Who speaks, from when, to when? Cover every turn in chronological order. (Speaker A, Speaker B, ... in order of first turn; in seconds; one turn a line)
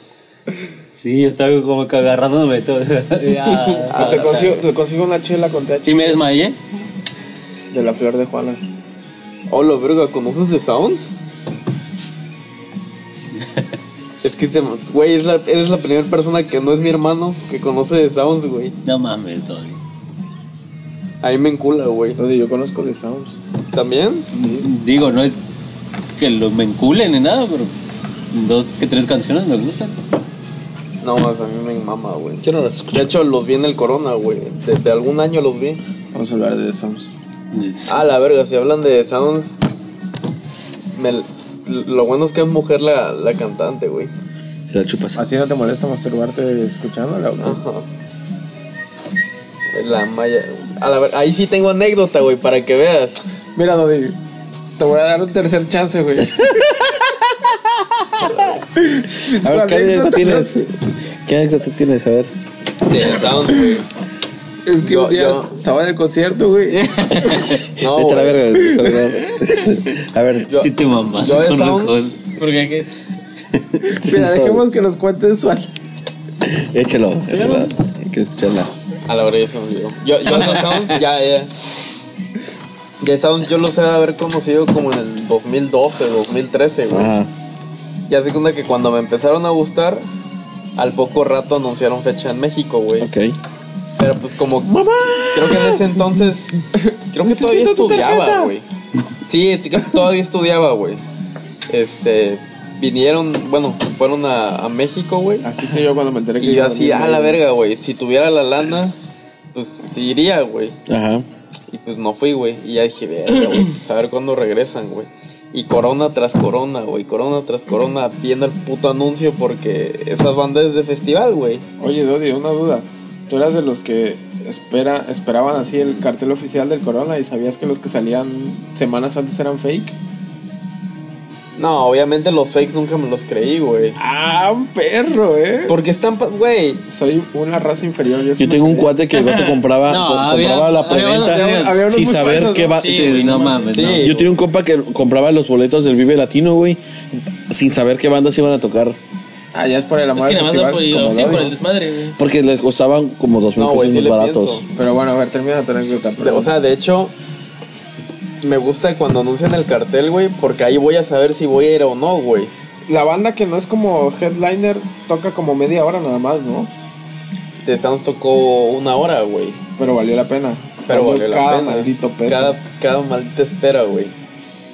Speaker A: 1.0-4.6
Speaker B: 3.9-6.2
Speaker C: 3.9-4.6
Speaker A: 5.9-6.6
Speaker B: 7.7-8.6
Speaker C: 9.5-11.1
Speaker A: 13.3-13.8
Speaker C: 14.2-18.8
Speaker A: 18.9-19.8
Speaker C: 21.2-22.2
Speaker B: 22.2-23.4
Speaker C: 23.7-24.3
Speaker B: 24.3-24.7
Speaker A: 24.6-25.4
Speaker A: 26.2-27.7
Speaker A: 28.3-30.0
Speaker C: 31.0-35.8
Speaker D: 32.4-33.1
Speaker B: 36.1-37.1
Speaker A: 37.5-38.1
Speaker C: 37.9-39.6
Speaker C: 41.0-44.1
Speaker D: 44.7-45.2
Speaker B: 45.2-47.6
Speaker C: 47.4-47.9
Speaker C: 49.7-53.2
Speaker B: 53.6-54.2
Speaker B: 54.8-56.9
Speaker D: 56.4-56.9
Speaker B: 58.2-60.6
Speaker C: 58.2-58.6
Speaker D: 59.4-62.3
Speaker C: 62.9-63.9
Speaker B: 64.7-67.5
Speaker C: 64.8-65.5
Speaker A: 66.7-67.6
Speaker C: 67.8-68.4
Speaker D: 67.8-70.5
Speaker B: 68.7-69.5
Speaker C: 70.5-72.2
Speaker A: 70.6-72.2
Speaker E: 72.4-72.9
Speaker A: 73.5-73.8
Speaker B: 73.9-75.7
Speaker D: 74.0-74.7
Speaker D: 76.4-78.7
Speaker A: 77.3-77.7
Speaker C: 79.1-81.5
Speaker C: 83.0-87.1
Speaker D: 86.9-87.3
Speaker C: 88.1-90.0
Speaker C: 90.8-93.1
Speaker D: 93.0-93.3
Speaker C: 94.0-94.8
Speaker D: 94.7-96.0
Speaker C: 95.3-98.6
Speaker B: 96.8-98.5
Speaker C: 99.3-101.0
Speaker C: 101.7-105.5
Speaker B: 105.4-107.4
Speaker C: 106.4-109.0
Speaker C: 109.5-110.8
Speaker D: 110.9-111.3
Speaker C: 111.7-121.7
Speaker B: 121.8-130.0
Speaker C: 131.6-134.0
Speaker B: 134.0-135.8
Speaker C: 135.7-136.8
Speaker B: 136.9-139.0
Speaker D: 138.4-149.0
Speaker A: 139.8-141.9
Speaker B: 141.2-142.8
Speaker A: 142.6-144.3
Speaker E: 142.8-143.9
Speaker C: 143.7-144.2
Speaker B: 149.5-151.6
Speaker E: 150.1-152.2
Speaker D: 152.2-154.6
Speaker C: 153.6-154.7
Speaker B: 154.7-156.5
Speaker C: 156.2-157.1
Speaker C: 158.4-162.5
Speaker B: 162.9-166.7
Speaker C: 167.6-169.6
Speaker B: 169.8-172.6
Speaker C: 170.9-174.1